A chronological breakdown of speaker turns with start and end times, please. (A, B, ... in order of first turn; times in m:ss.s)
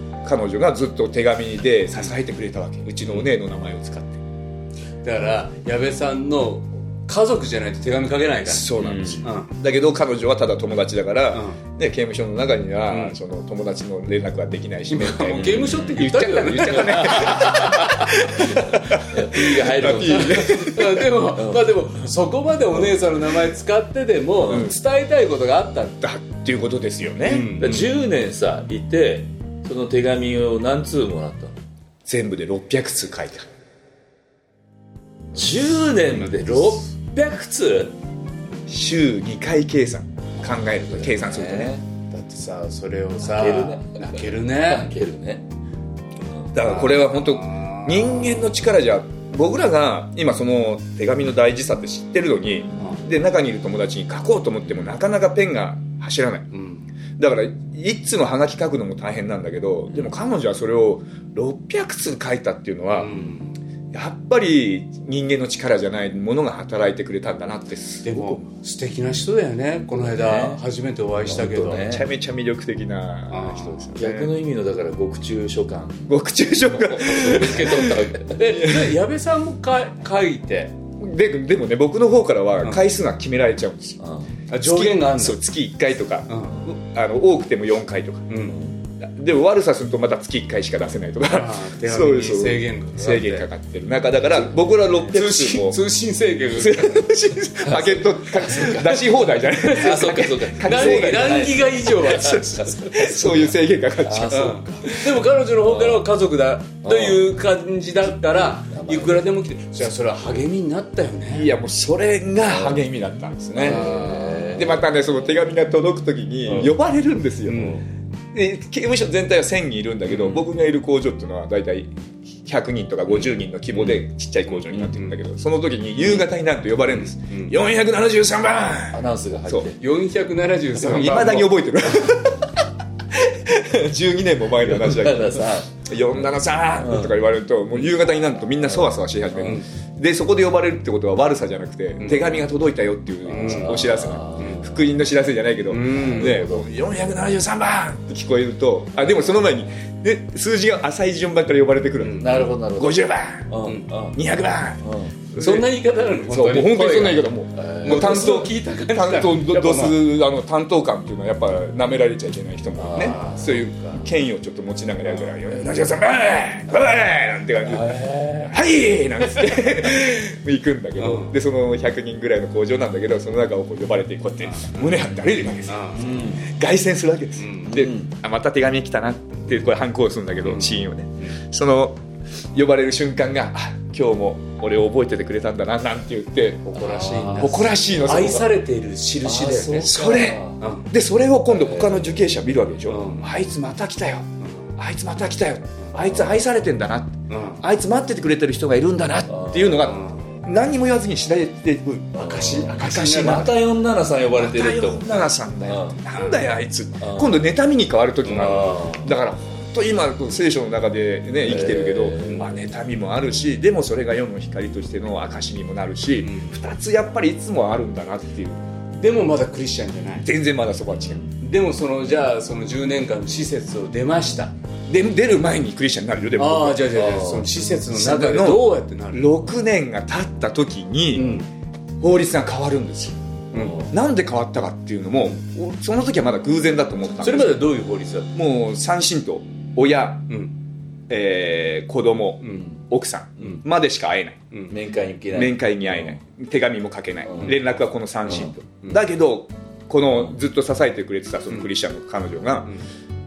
0:00.2-0:04.2 A
0:05.0-0:09.5 B
0:08.5-0:20.9 A
0:08.8-0:09.2 C
0:12.9-0:13.2 B
0:14.9-0:18.1 B
0:15.4-0:16.0 C
0:16.8-0:17.8 C
0:18.5-0:21.6 C
0:20.1-0:26.0 B
0:24.5-0:24.8 A
0:26.0-0:27.6 A
0:27.3-0:27.9 B
0:27.6-0:31.6 C
0:32.1-0:33.5 A
0:35.3-0:38.0 C
0:36.4-0:36.8 B
0:38.7-0:41.8 A
0:40.6-0:41.8 C
0:42.1-0:44.9 B
0:43.2-0:45.4 C
0:46.3-0:46.5 C
0:46.5-0:56.5 A
0:46.6-0:48.4 B
0:56.5-0:56.9 B
0:57.2-1:03.1 A
1:02.9-1:03.5 B
1:03.9-1:08.4 A
1:08.0-1:11.9 B
1:09.9-1:10.6 C
1:11.2-1:12.1 C
1:11.8-1:14.3 A
1:13.3-1:13.9 B
1:14.0-1:16.2 C
1:16.1-1:18.9 A
1:16.7-1:18.4 C
1:18.3-1:20.7 B
1:21.0-1:24.0 A
1:24.0-1:24.3 C
1:24.5-1:25.4 B
1:24.6-1:28.4 A
1:26.3-1:26.6 B
1:28.3-1:28.6 B
1:28.5-1:28.8 C
1:29.0-1:35.8 A
1:31.3-1:33.5 B
1:35.1-1:37.0 B
1:36.5-1:45.1 A
1:37.6-1:39.0 C
1:39.6-1:43.4 B
1:39.8-1:43.3 C
1:44.0-1:44.6 C
1:44.3-1:51.5 B
1:45.6-1:46.0 C
1:46.8-1:47.3 C
1:48.6-1:49.2 C
1:51.3-1:54.0 A
1:52.5-1:52.8 C
1:53.6-1:54.8 C
1:53.6-1:54.6 B
1:54.6-1:57.8 A
1:56.5-1:56.7 C
1:57.5-1:57.8 B
1:58.3-2:09.7 A
2:00.1-2:00.5 B
2:06.9-2:07.5 B
2:08.9-2:09.8 C
2:09.8-2:11.6 B
2:10.8-2:12.6 A
2:13.1-2:33.5 A
2:14.6-2:15.8 C
2:16.8-2:17.1 C
2:22.0-2:22.2 B
2:23.3-2:23.8 B
2:23.3-2:24.8 C
2:25.7-2:26.3 B
2:25.8-2:26.7 C
2:32.0-2:32.5 B
2:32.2-2:34.2 C
2:34.1-2:35.7 A
2:34.8-2:35.2 C
2:35.4-2:37.3 B
2:36.2-3:02.0 A
2:37.5-2:38.5 C
2:37.8-2:40.0 B
2:42.8-2:44.0 C
2:47.6-2:48.6 C
2:51.0-2:51.4 B
2:54.5-2:55.1 B
2:55.7-2:56.2 B
2:55.9-2:56.5 C
2:57.4-2:57.7 B
2:57.6-2:58.1 C
3:00.4-3:00.7 B
3:02.5-3:08.5 A
3:06.7-3:09.9 B
3:06.8-3:07.6 C
3:09.2-3:10.6 C
3:09.8-3:23.6 A
3:10.6-3:10.9 B
3:11.5-3:12.2 C
3:12.9-3:13.3 B
3:17.3-3:17.6 B
3:19.3-3:19.9 C
3:19.8-3:20.3 B
3:22.2-3:26.0 C
3:22.2-3:23.5 B
3:24.4-3:38.6 A
3:27.0-3:27.4 C
3:28.2-3:28.8 B
3:28.3-3:29.1 C
3:31.4-3:32.5 C
3:36.2-3:36.6 B
3:39.0-3:40.3 B
3:40.2-3:41.2 A
3:41.4-3:44.5 B
3:44.9-3:47.0 A
3:46.4-3:49.5 B
3:46.9-3:47.5 C
3:47.9-3:51.4 A
3:51.1-3:51.5 B
3:52.0-3:53.2 A
3:53.5-3:53.8 B
3:53.5-3:53.9 C
3:53.8-3:57.6 A
3:57.2-3:58.3 B
3:58.3-4:00.3 A
4:01.1-4:04.4 A
4:04.7-4:06.2 C
4:05.3-4:12.7 A
4:07.3-4:07.5 C